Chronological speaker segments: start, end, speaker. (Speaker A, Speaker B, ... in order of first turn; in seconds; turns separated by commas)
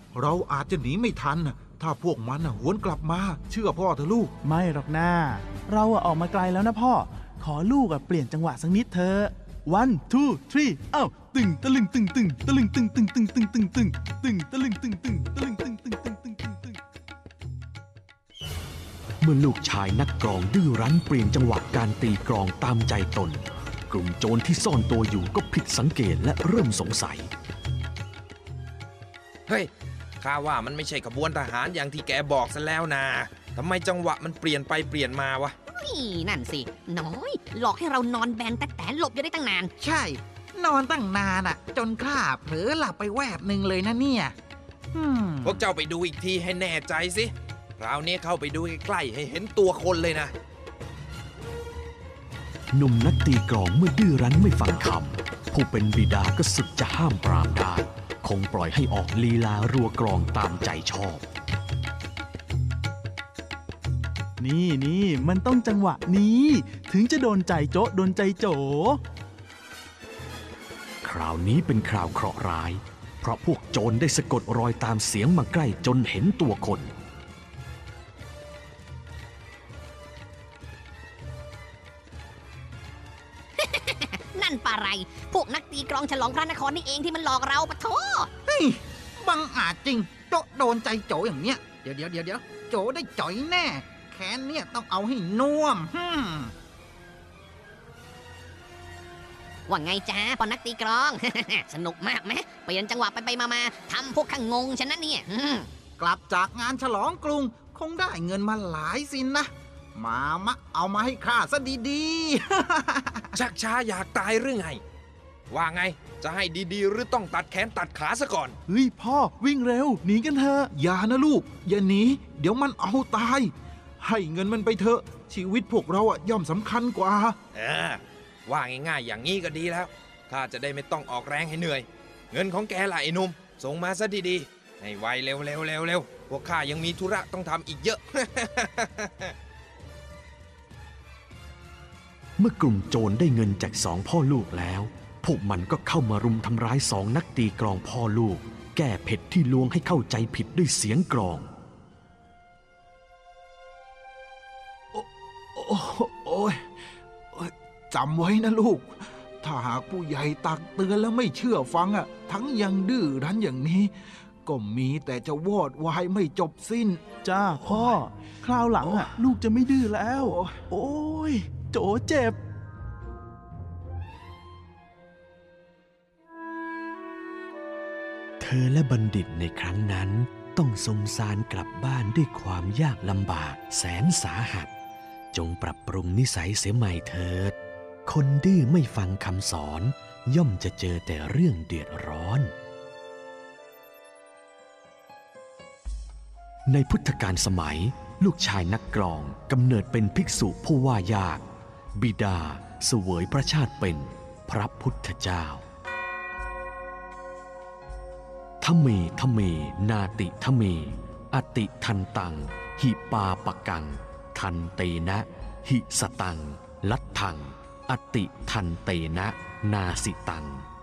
Speaker A: 0.1-4.3, Speaker B: 4.4-16.8, Speaker C: 19.2-27.3, Speaker D: 30.2-35.5, Speaker E: 35.7-39.7, Speaker F: 39.8-44.4, Speaker F: 44.9-45.6, Speaker D: 45.4-50.3, Speaker C: 52.7-61.2, Speaker B: 64.4-69.0, Speaker C: 71.0-76.9, Speaker E: 83.6-88.3, Speaker F: 88.5-96.5, Speaker E: 99.7-105.7, Speaker F: 106.0-113.3, Speaker D: 113.3-114.8, Speaker D: 115.5-118.6, Speaker B: 118.7-120.7, Speaker A: 120.7-127.4, Speaker D: 127.5-139.3, Speaker C: 142.4-151.5, Speaker A: 154.9-156.8, Speaker A: 157.3-163.9, Speaker A: 164.4-167.0, Speaker B: 167.2-172.4, Speaker A: 167.7-168.0, Speaker A: 168.8-169.1, Speaker A: 170.1-170.6, Speaker C: 178.4-184.7, Speaker C: 185.3-192.5, Speaker C: 196.7-201.4, Speaker C: 202.0-205.6, Speaker C: 208.6-220.6